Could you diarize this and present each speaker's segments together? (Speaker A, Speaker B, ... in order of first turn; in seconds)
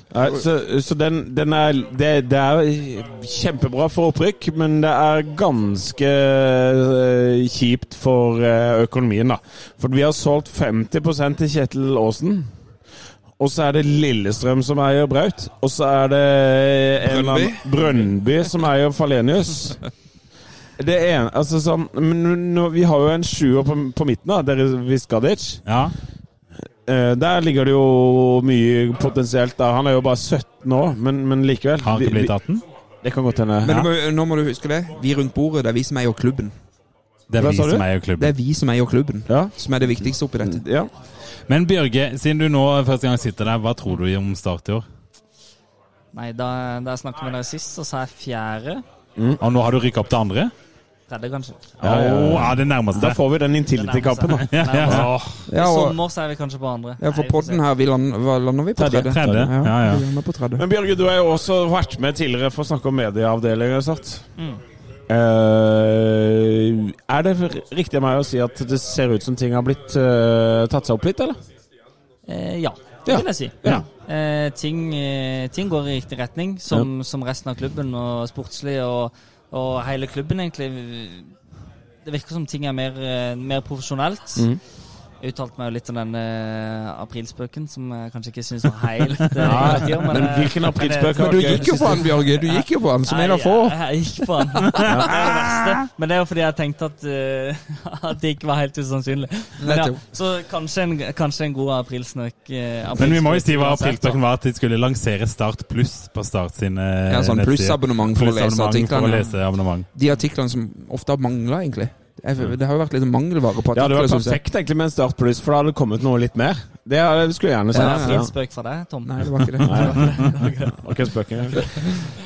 Speaker A: 0.1-12.5, 13.4-19.8, 20.8-25.6, 26.8-32.3, 33.0-33.9, 37.4-37.9, 39.3-40.9, 51.8-55.2, 58.8-59.5, 60.5-64.3, 65.1-71.4, 73.0-73.8, 89.4-92.0, 113.7-118.3, 119.6-121.7
Speaker B: 17.0-17.7, 33.6-36.5, 38.2-40.6, 55.5-56.0, 57.0-60.6, 91.1-93.8, 99.6-100.0, 107.1-109.3, 109.9-114.4, 117.7-118.3, 119.0-120.1
Speaker C: 25.6-25.9, 31.8-32.6, 37.3-38.3, 41.5-44.8, 49.4-50.5, 51.8-53.2, 54.4-55.4, 59.0-60.0, 94.9-95.5, 103.0-109.9
Speaker D: 46.1-48.8, 51.1-51.7, 53.7-57.6, 64.3-64.6, 72.2-81.3, 82.0-84.5, 85.2-104.2, 117.7-120.9